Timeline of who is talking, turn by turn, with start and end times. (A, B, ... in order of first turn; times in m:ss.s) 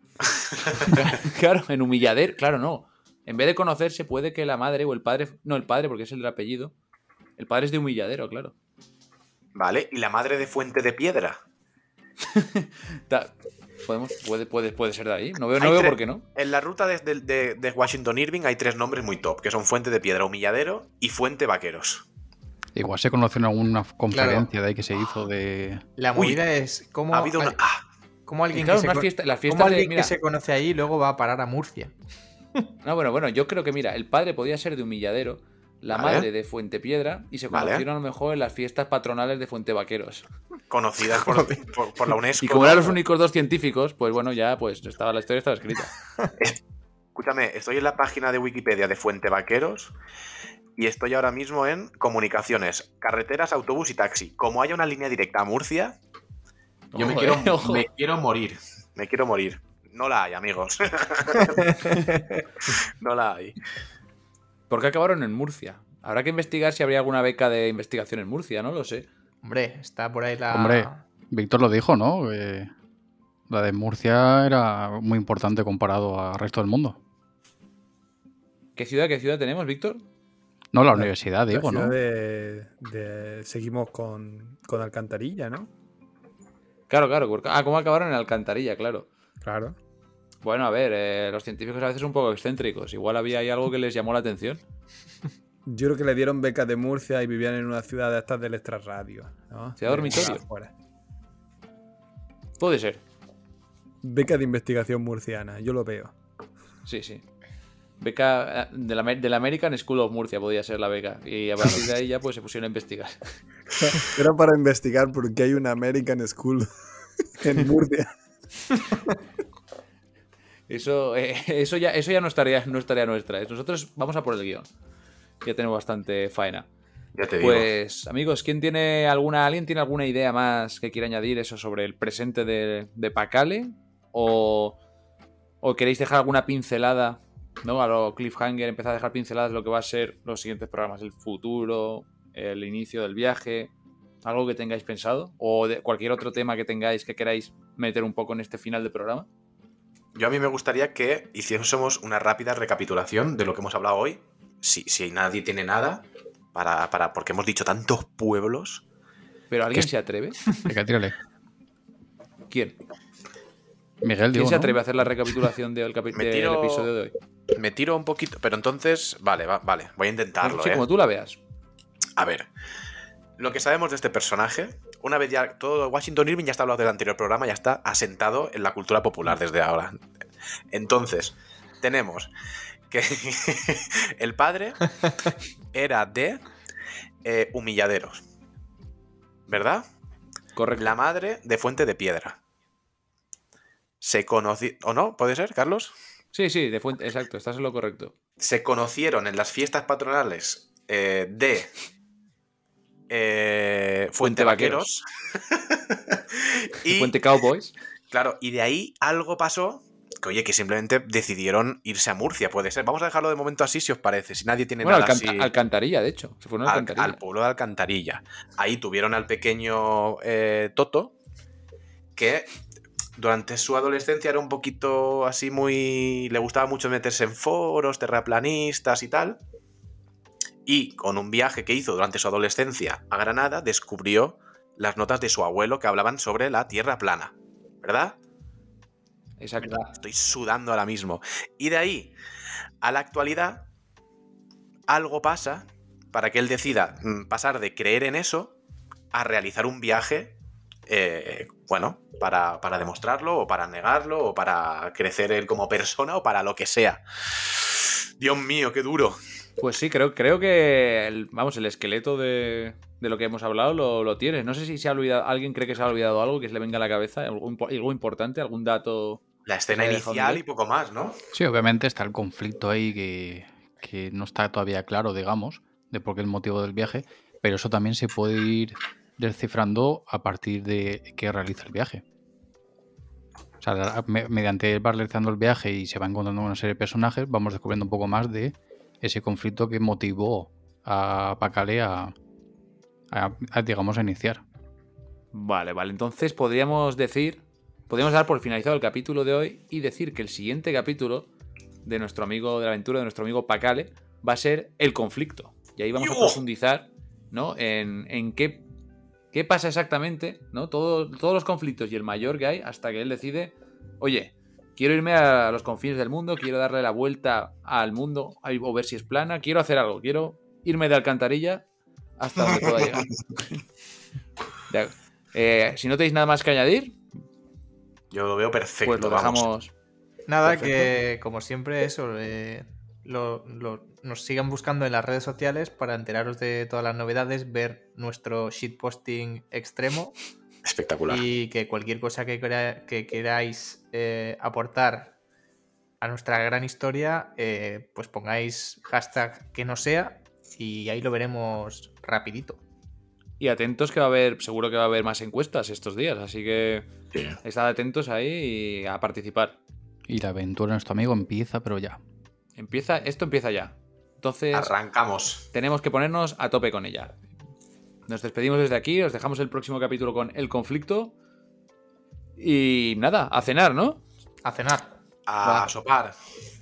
0:00.6-0:06.7 A
0:07.4-0:08.5 A
0:09.6-0:11.4 B
0:12.3-0:13.3 A
0:13.8-0:16.2 A
0:15.6-0:22.0 B
0:22.8-0:25.8 C
0:24.1-0:24.5 D
0:26.0-0:27.6 D
0:27.1-0:27.8 B
0:28.3-0:32.0 D
0:28.5-0:30.1 A
0:32.8-0:40.3 A
0:35.9-0:36.3 B
0:37.5-0:37.8 B
0:40.7-0:43.0 B
0:42.4-0:45.9 A
0:47.2-0:49.9 B
0:50.8-0:56.0 B
0:56.9-0:57.9 A
0:57.0-1:01.9 B
1:01.9-1:02.2 D
1:02.7-1:03.6 B
1:04.7-1:09.1 A
1:09.4-1:11.0 D
1:10.5-1:12.7 C
1:13.5-1:17.0 C
1:18.8-1:20.0 A
1:20.7-1:22.0 C
1:21.0-1:25.7 E
1:26.9-1:29.1 A
1:29.4-1:29.8 E
1:30.4-1:34.6 A
1:35.7-1:40.7 E
1:39.8-1:40.4 A
1:42.6-1:43.0 A
1:44.0-1:46.1 E
1:46.9-1:47.2 A
1:48.0-1:53.3 A
1:53.8-1:56.7 E
1:57.2-1:58.1 E
2:00.7-2:04.7 A
2:05.4-2:06.7 A
2:07.2-2:07.7 B
2:07.4-2:14.8 A
2:15.6-2:23.7 A
2:24.2-2:29.3 A
2:30.2-2:38.8 B
2:39.5-2:40.4 A
2:40.6-2:41.2 C
2:42.5-2:42.8 A
2:44.0-2:44.8 C
2:44.3-2:47.1 A
2:46.1-2:46.9 B
2:47.6-2:50.8 B
2:50.4-2:51.4 A
2:52.2-2:52.5 B
2:53.4-3:00.0 B
3:00.7-3:02.3 B
3:02.9-3:04.8 B
3:05.7-3:06.4 B
3:07.2-3:08.2 B
3:09.5-3:09.8 B
3:10.6-3:11.0 A
3:10.8-3:12.4 B
3:14.0-3:15.9 B
3:16.3-3:18.1 A
3:18.4-3:21.7 B
3:23.1-3:27.1 B
3:24.2-3:24.9 A
3:26.8-3:27.7 A
3:28.1-3:35.5 B
3:34.8-3:37.2 A
3:36.7-3:41.1 B
3:42.2-3:42.5 B
3:43.2-3:49.4 B
3:50.7-3:58.2 B
3:59.4-3:59.9 A
3:59.7-4:02.1 B
4:02.8-4:03.7 B
4:04.9-4:08.5 B
4:09.1-4:10.4 B
4:10.9-4:17.0 B
4:17.6-4:19.2 B
4:19.6-4:30.4 A
4:29.5-4:31.2 B
4:31.3-4:42.0 C
4:43.6-4:52.1 C
4:53.1-4:54.4 C
4:55.3-5:01.3 A
5:01.8-5:08.6 A
5:06.0-5:06.4 B
5:09.3-5:21.6 A
5:22.2-5:23.2 A
5:24.7-5:27.0 A
5:28.1-5:29.4 B
5:28.8-5:29.7 A
5:30.3-5:40.2 D
5:30.5-5:30.9 A
5:40.6-5:41.2 B
5:41.1-5:45.1 D
5:46.0-5:52.6 D
5:53.4-5:56.9 A
5:57.4-5:59.6 A
6:00.1-6:02.0 C
6:02.6-6:04.7 A
6:04.5-6:05.5 B
6:05.5-6:07.2 A
6:08.1-6:11.1 A
6:12.4-6:14.0 A
6:14.4-6:14.9 D
6:15.3-6:16.2 B